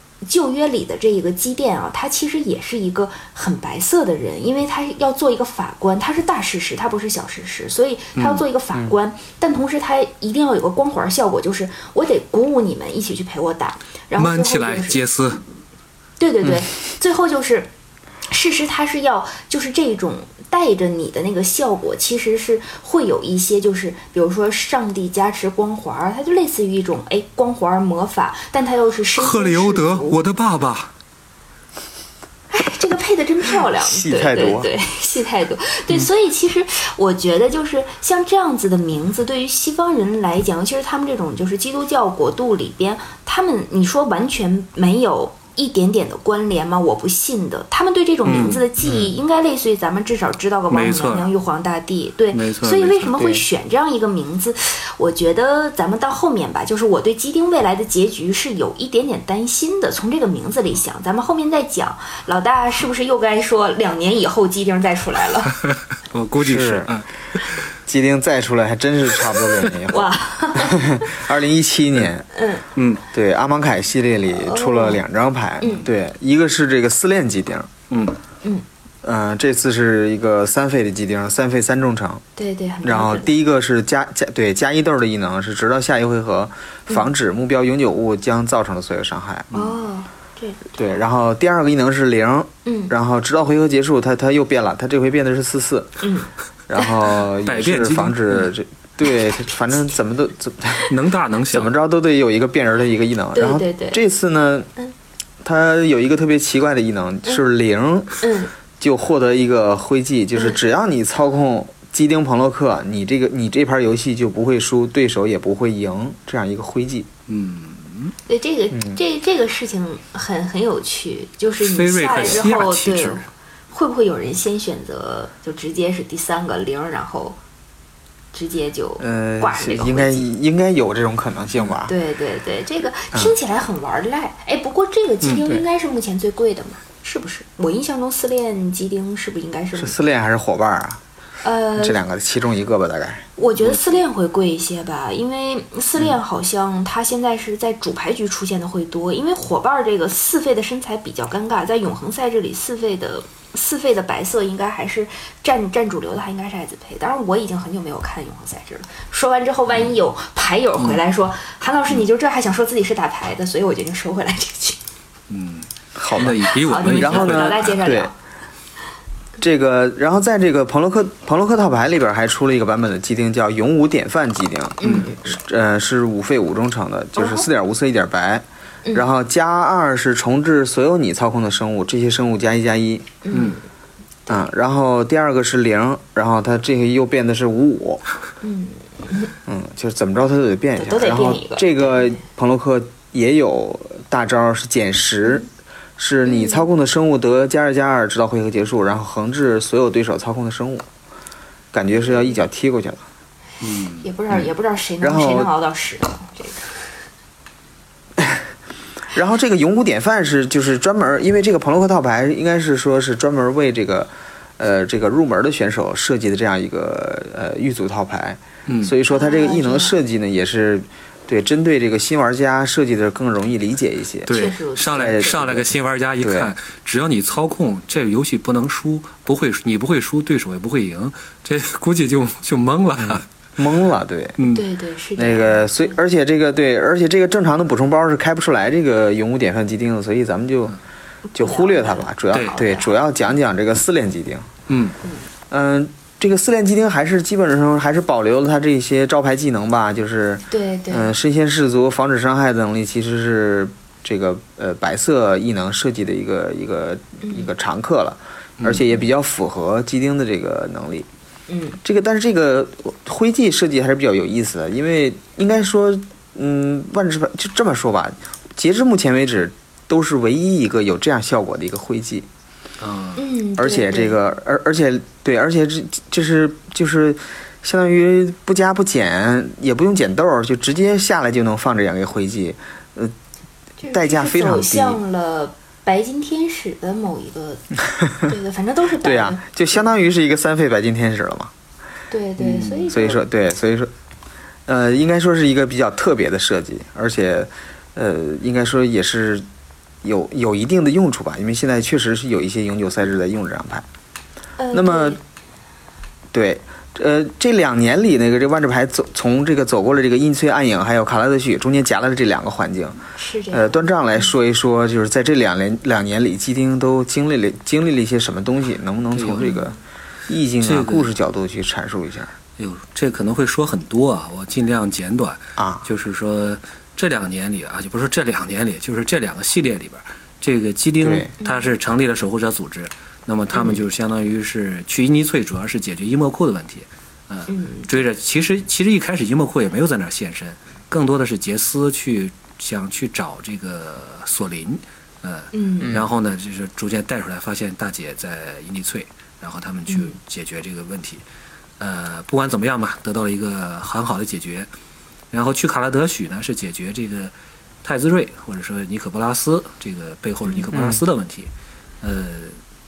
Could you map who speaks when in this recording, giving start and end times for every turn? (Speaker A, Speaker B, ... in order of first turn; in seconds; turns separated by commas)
Speaker A: 0.2-15.0, Speaker B: 8.2-8.4, Speaker B: 14.2-15.4, Speaker A: 16.2-17.7, Speaker A: 18.3-30.2, Speaker B: 29.2-30.9, Speaker A: 32.5-65.6, Speaker C: 33.8-34.7, Speaker B: 48.2-48.7, Speaker C: 48.8-49.1, Speaker B: 50.7-51.3, Speaker B: 52.3-53.2, Speaker B: 65.7-67.6, Speaker C: 66.4-66.9, Speaker C: 67.9-72.3, Speaker A: 69.9-71.2, Speaker A: 72.3-72.7, Speaker B: 72.8-73.0, Speaker C: 73.1-77.7, Speaker A: 74.3-75.0, Speaker A: 75.6-75.9, Speaker B: 77.9-78.2, Speaker C: 79.0-82.2, Speaker A: 82.4-83.3, Speaker C: 82.8-89.5, Speaker B: 89.5-89.8, Speaker A: 89.5-90.8, Speaker C: 90.7-95.9, Speaker A: 92.7-92.9, Speaker A: 96.0-96.9, Speaker C: 96.7-100.9, Speaker B: 97.3-98.5, Speaker B: 100.9-101.7, Speaker C: 101.5-104.7, Speaker A: 103.3-104.0, Speaker C: 105.4-108.2, Speaker A: 108.2-108.5, Speaker C: 108.8-117.1, Speaker B: 117.3-118.2, Speaker A: 118.3-127.4, Speaker C: 118.7-119.0, Speaker B: 121.6-123.3, Speaker A: 128.3-130.3, Speaker C: 129.0-131.9, Speaker A: 131.8-140.0, Speaker C: 139.8-141.0, Speaker A: 141.4-142.0, Speaker C: 141.8-143.3, Speaker A: 143.4-164.8, Speaker B: 165.3-167.9, Speaker C: 166.0-168.1, Speaker A: 166.2-168.1, Speaker C: 169.4-183.2, Speaker A: 174.8-175.2, Speaker B: 174.8-175.1, Speaker A: 177.2-177.5, Speaker A: 183.2-183.6, Speaker B: 183.3-183.6, Speaker C: 184.3-188.0, Speaker A: 188.4-189.3, Speaker C: 189.5-195.4, Speaker A: 190.8-192.2, Speaker C: 196.0-200.9, Speaker A: 196.3-196.7, Speaker C: 201.7-203.0, Speaker B: 203.6-204.3, Speaker A: 204.0-206.7, Speaker C: 205.0-205.5, Speaker C: 208.2-208.5, Speaker C: 209.1-224.3, Speaker B: 218.7-218.9, Speaker A: 219.1-220.0, Speaker B: 224.3-233.3, Speaker A: 224.3-225.4, Speaker C: 224.9-225.7, Speaker C: 226.2-226.5, Speaker C: 233.6-234.4, Speaker B: 234.4-234.7, Speaker A: 234.4-236.0, Speaker C: 235.2-240.8, Speaker A: 241.3-242.9, Speaker C: 241.3-244.5, Speaker B: 242.3-242.6, Speaker B: 244.7-245.0, Speaker C: 245.5-261.1, Speaker A: 250.5-251.1, Speaker A: 257.2-257.5, Speaker B: 258.6-258.9, Speaker A: 261.5-261.8, Speaker C: 261.8-272.3, Speaker B: 272.8-273.2, Speaker A: 273.2-274.2, Speaker C: 273.6-283.1, Speaker A: 283.8-289.4, Speaker C: 283.9-285.0, Speaker C: 289.0-291.5, Speaker A: 292.1-293.2, Speaker B: 292.4-292.8, Speaker C: 292.9-293.9, Speaker C: 294.7-299.4, Speaker C: 300.0-303.9, Speaker A: 304.6-305.2, Speaker C: 304.7-305.2, Speaker C: 306.3-313.0, Speaker A: 313.2-313.9, Speaker C: 313.5-319.8, Speaker B: 319.1-319.5, Speaker A: 319.4-319.8, Speaker C: 320.3-322.3, Speaker B: 320.6-321.1, Speaker B: 322.6-351.2, Speaker C: 325.6-325.9, Speaker C: 331.0-331.3, Speaker A: 331.4-331.7, Speaker A: 333.5-333.8, Speaker A: 337.5-337.9, Speaker A: 345.5-346.0, Speaker A: 349.9-350.2, Speaker B: 351.8-354.7, Speaker B: 355.3-357.3, Speaker B: 357.8-361.5, Speaker C: 360.7-361.0, Speaker B: 362.0-362.6